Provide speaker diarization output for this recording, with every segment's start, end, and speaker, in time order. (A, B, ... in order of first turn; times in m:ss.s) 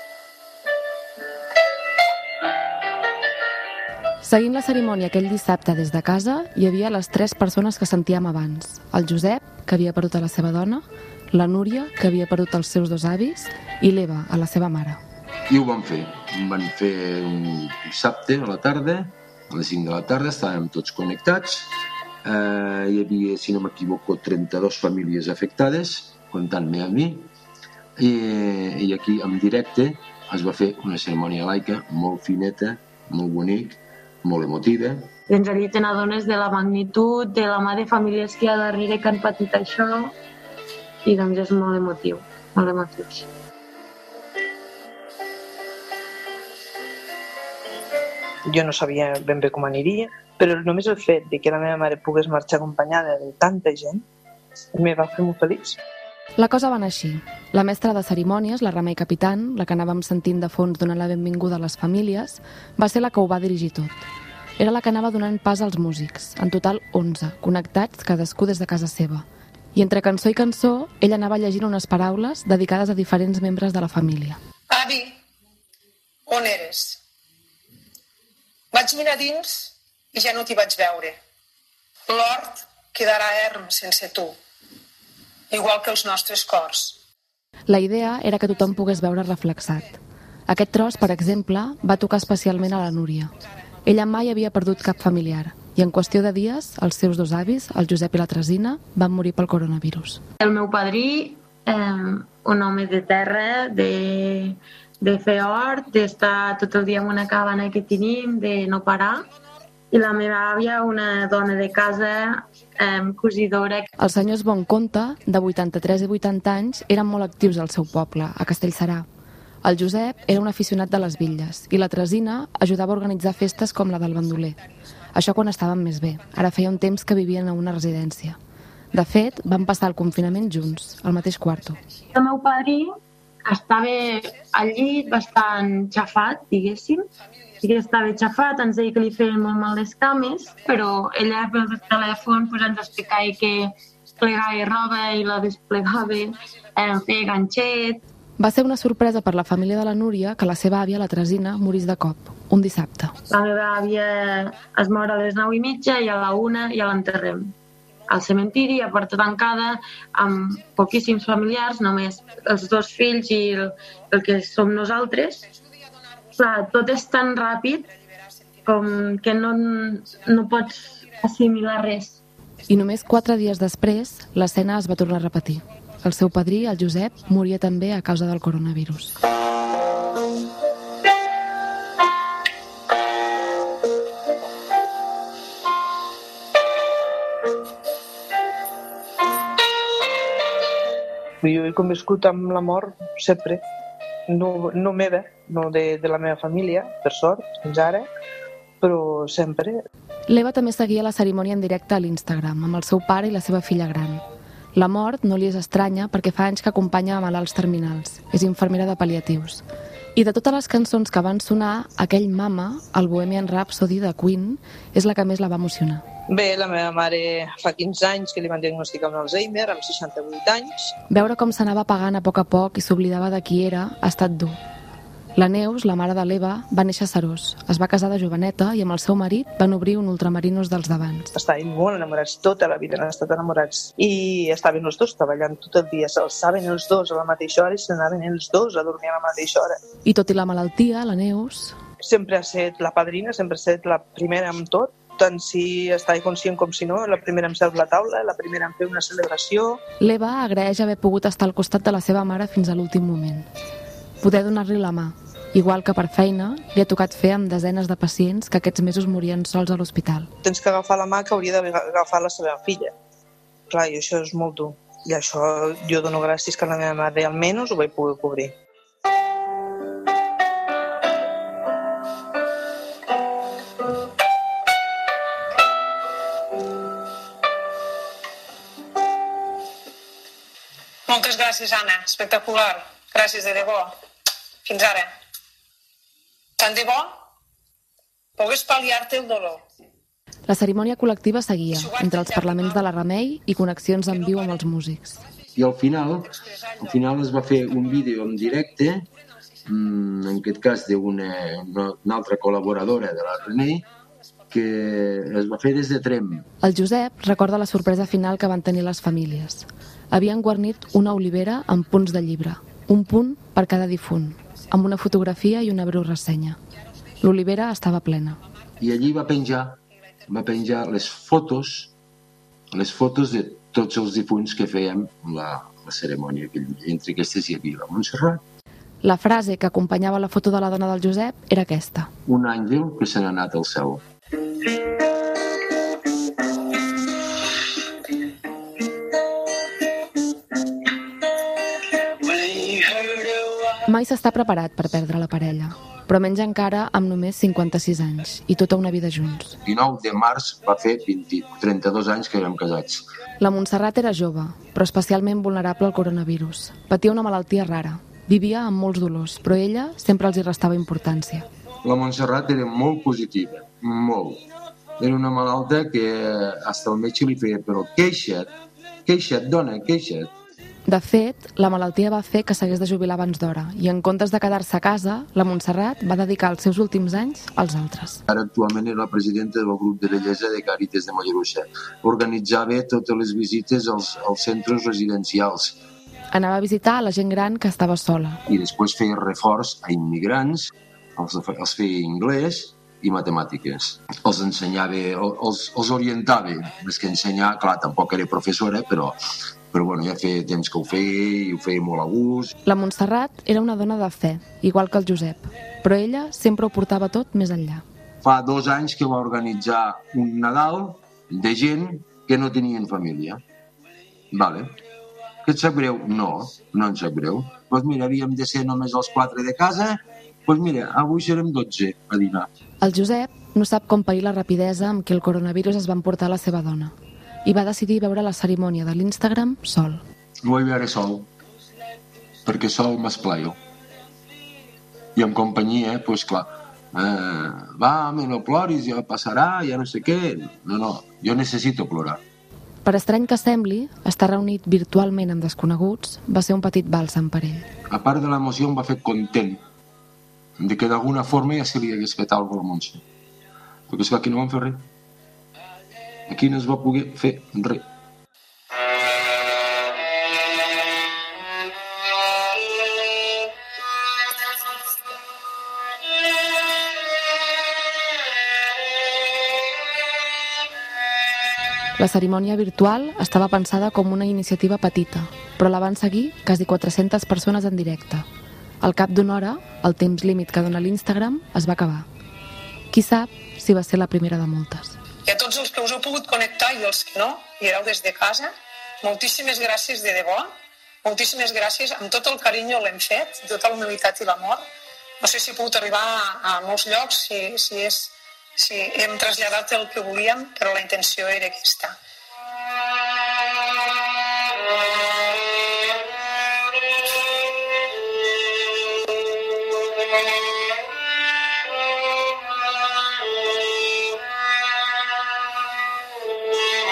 0:04.2-0:15.0 A
0:15.5-0:21.7 B
0:22.2-0:27.3 B
0:28.0-0:35.1 B
0:35.3-0:40.1 C
0:41.0-0:43.3 C
0:48.5-0:54.0 D
0:54.7-0:55.8 D
0:56.4-1:04.0 A
1:04.6-1:14.4 A
1:14.7-1:15.2 E
1:16.3-1:17.0 E
1:18.7-1:21.2 E
1:22.1-1:24.4 E
1:25.5-1:27.0 E
1:27.7-1:33.3 A
1:33.8-1:40.2 A
1:40.4-1:49.2 C
1:49.9-1:53.9 C
1:54.0-1:59.0 A
1:59.6-2:04.6 A
2:05.1-2:08.4 A
2:08.9-2:11.8 A
2:12.1-2:12.9 C
2:13.4-2:17.0 C
2:17.6-2:28.0 C
2:28.4-2:33.1 A
2:33.3-2:37.5 C
2:38.1-2:45.5 C
2:46.4-2:47.9 C
2:48.6-2:52.2 C
2:52.7-2:59.2 A
3:11.4-3:13.6 D
3:14.3-3:18.1 D
3:18.8-3:19.8 D
3:20.3-3:24.2 A
3:24.7-3:29.6 A
3:30.1-3:36.0 A
3:36.3-3:40.9 D
3:41.1-3:44.6 A
3:45.4-3:51.3 A
3:51.3-3:59.8 D
4:00.0-4:01.8 A
4:02.0-4:09.8 D
4:10.0-4:13.5 A
4:14.2-4:20.3 A
4:20.4-4:22.9 D
4:23.7-4:28.5 D
4:41.1-4:44.0 E
4:44.6-4:45.1 E
4:46.6-4:47.2 E
4:48.4-4:49.6 E
4:50.5-4:55.2 A
4:51.7-4:52.8 E
4:55.6-4:59.1 B
4:59.6-5:03.8 B
5:04.5-5:06.5 B
5:06.6-5:16.6 A
5:17.2-5:18.4 A
5:18.8-5:21.9 B
5:22.7-5:28.4 B
5:29.0-5:32.1 A
5:32.2-5:34.0 B
5:42.2-5:43.6 B
5:43.8-5:49.6 A
5:49.6-5:53.0 B
5:53.4-6:01.5 A
6:01.8-6:04.4 B
6:05.0-6:08.5 B
6:09.0-6:10.3 B
6:10.9-6:18.2 A
6:18.3-6:25.8 B
6:26.3-6:28.4 A
6:28.5-6:39.2 B
6:39.7-6:42.5 B
6:42.6-6:47.8 A
6:48.2-6:53.4 B
6:54.3-6:54.8 B
6:55.4-7:02.5 B
7:02.8-7:10.0 A
7:10.4-7:11.3 B
7:12.4-7:13.6 B
7:15.2-7:22.2 B
7:22.8-7:27.6 A
7:27.9-7:29.6 B
7:30.6-7:33.0 B
7:33.9-7:34.8 B
7:36.3-7:37.8 B
7:52.0-7:58.2 A
7:58.8-8:02.1 A
8:02.9-8:05.0 A
8:05.2-8:08.5 E
8:09.0-8:14.6 E
8:15.2-8:21.9 E